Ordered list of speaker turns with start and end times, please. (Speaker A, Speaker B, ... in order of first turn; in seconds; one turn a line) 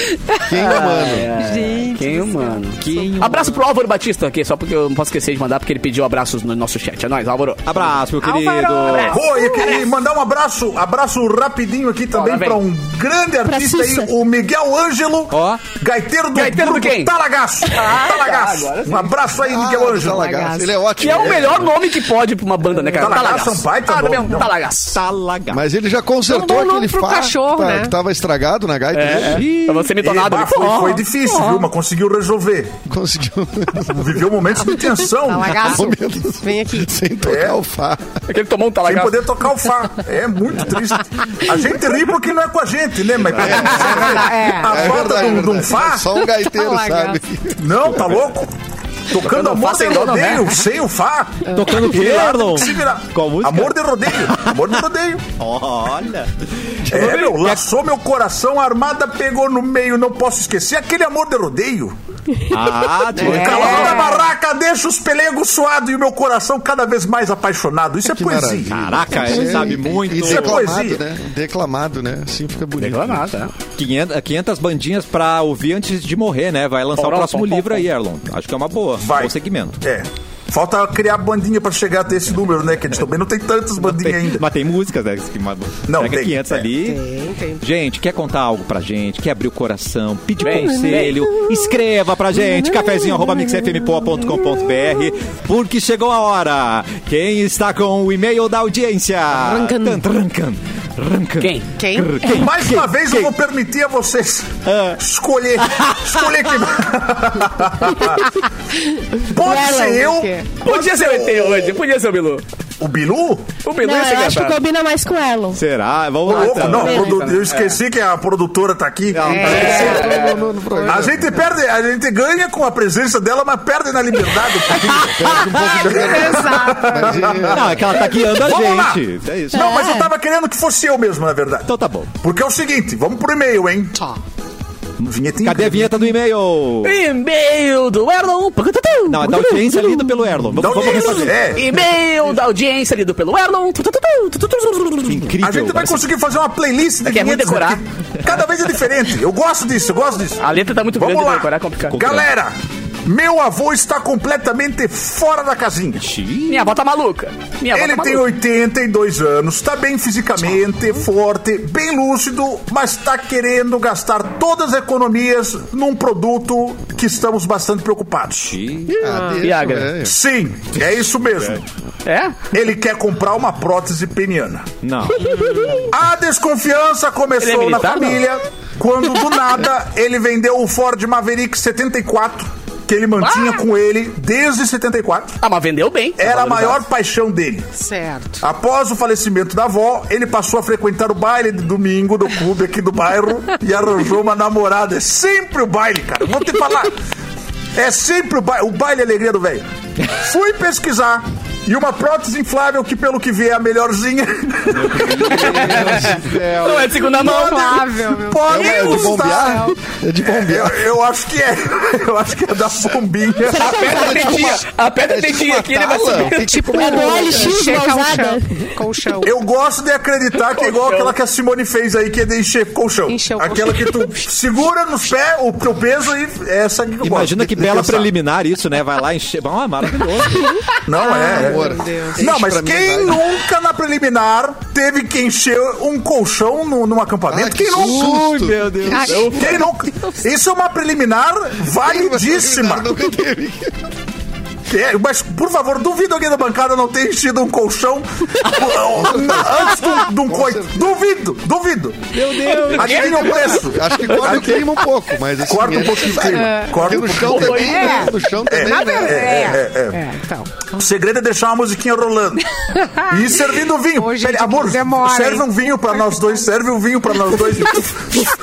Speaker A: 0.1-0.5
Speaker B: 0.4-1.3
Speaker C: 0.6-7.9
Speaker A: 1.4-3.1
Speaker D: 2.8-3.6
Speaker D: 7.6-9.2
Speaker A: 8.1-9.9
Speaker C: 8.8-9.7
Speaker E: 9.1-20.2
Speaker C: 12.1-12.6
Speaker F: 13.4-14.1
Speaker D: 15.3-15.7
Speaker C: 16.3-17.1
Speaker C: 17.7-19.2
Speaker B: 19.4-21.7
Speaker A: 20.1-20.8
Speaker C: 21.0-25.0
Speaker E: 23.0-24.5
Speaker D: 24.9-25.6
Speaker B: 25.5-29.4
Speaker A: 26.2-27.9
Speaker C: 28.9-31.6
Speaker D: 29.3-29.9
Speaker E: 30.0-32.9
Speaker D: 30.6-31.0
Speaker B: 32.9-34.2
Speaker E: 33.9-35.5
Speaker A: 34.7-37.0
Speaker B: 35.6-38.1
Speaker E: 37.2-37.5
Speaker C: 38.3-39.2
Speaker E: 38.9-46.0
Speaker B: 43.3-47.6
Speaker A: 43.9-45.4
Speaker A: 46.1-47.2
Speaker E: 47.6-48.5
Speaker D: 47.8-48.3
Speaker E: 49.1-55.3
Speaker C: 49.1-50.6
Speaker D: 51.5-54.8
Speaker A: 51.5-51.8
Speaker D: 55.3-57.6
Speaker E: 56.9-62.0
Speaker D: 62.5-64.0
Speaker A: 63.1-64.3
Speaker E: 63.2-69.3
Speaker B: 68.0-73.4
Speaker D: 68.7-70.7
Speaker E: 70.1-71.0
Speaker C: 72.8-73.5
Speaker D: 73.8-79.8
Speaker C: 77.0-77.9
Speaker E: 79.0-84.4
Speaker D: 83.8-87.0
Speaker E: 85.9-86.7
Speaker A: 86.7-87.6
Speaker D: 87.6-103.3
Speaker C: 90.4-91.3
Speaker A: 99.3-100.0
Speaker C: 101.4-101.7
Speaker A: 101.8-102.2
Speaker E: 102.2-108.2
Speaker D: 104.6-105.0
Speaker D: 105.6-106.7
Speaker A: 109.0-110.6
Speaker E: 109.3-111.7
Speaker F: 109.4-110.0
Speaker C: 110.6-112.4
Speaker E: 112.8-113.5
Speaker C: 113.6-114.6
Speaker F: 113.8-115.6
Speaker D: 115.5-117.0
Speaker E: 116.3-120.1
Speaker C: 116.3-117.8
Speaker F: 116.8-117.2
Speaker D: 119.1-119.6
Speaker A: 119.2-121.2
Speaker B: 119.3-121.4
Speaker C: 119.4-120.4
Speaker E: 120.8-125.2
Speaker D: 124.7-125.8
Speaker B: 124.8-128.0
Speaker E: 125.8-134.0
Speaker A: 126.0-127.2
Speaker D: 127.5-129.8
Speaker F: 129.5-130.1
Speaker D: 131.7-132.1
Speaker E: 135.0-136.1
Speaker D: 135.4-136.9
Speaker C: 136.8-140.1
Speaker D: 139.1-141.5
Speaker E: 140.5-141.6
Speaker C: 140.9-145.3
Speaker D: 145.1-146.0
Speaker E: 145.4-150.4
Speaker C: 147.0-147.8
Speaker C: 150.4-152.2
Speaker E: 150.9-156.1
Speaker D: 156.0-156.7
Speaker C: 156.5-158.3
Speaker E: 157.7-168.6
Speaker D: 168.5-169.0
Speaker C: 168.9-169.9
Speaker B: 169.0-170.2
Speaker A: 169.0-169.5
Speaker E: 170.0-171.6
Speaker C: 172.0-172.4
Speaker E: 172.5-174.7
Speaker D: 174.8-175.4
Speaker A: 175.2-175.9
Speaker E: 175.9-185.4
Speaker C: 177.4-178.2
Speaker C: 183.2-183.5
Speaker C: 185.4-186.8
Speaker E: 186.2-187.7
Speaker A: 187.8-188.4
Speaker E: 188.4-196.9
Speaker E: 197.8-205.3
Speaker D: 204.7-207.0
Speaker C: 205.2-207.9
Speaker A: 206.8-209.7
Speaker E: 208.2-209.7
Speaker B: 208.5-210.8
Speaker E: 210.3-214.2
Speaker F: 213.5-214.6
Speaker C: 213.6-216.8
Speaker B: 213.7-217.7
Speaker A: 216.3-219.4
Speaker F: 216.8-218.7
Speaker E: 219.2-228.1
Speaker C: 220.5-221.1
Speaker A: 223.1-224.2
Speaker D: 227.0-230.6
Speaker A: 230.5-232.3
Speaker E: 230.8-238.1
Speaker B: 231.3-233.2
Speaker B: 237.3-239.3
Speaker D: 237.8-239.6
Speaker A: 238.9-239.5
Speaker E: 239.2-242.9
Speaker B: 241.7-243.9
Speaker E: 244.7-254.7
Speaker D: 248.4-248.7
Speaker B: 248.9-250.9
Speaker D: 252.1-253.6
Speaker C: 252.5-253.5
Speaker B: 253.6-259.4
Speaker C: 254.1-254.4
Speaker E: 255.4-257.8
Speaker A: 256.3-256.8
Speaker C: 257.2-258.1
Speaker A: 257.4-260.9
Speaker E: 258.5-260.0
Speaker E: 260.8-262.5
Speaker A: 262.7-266.5
Speaker E: 263.1-268.3
Speaker A: 267.2-267.8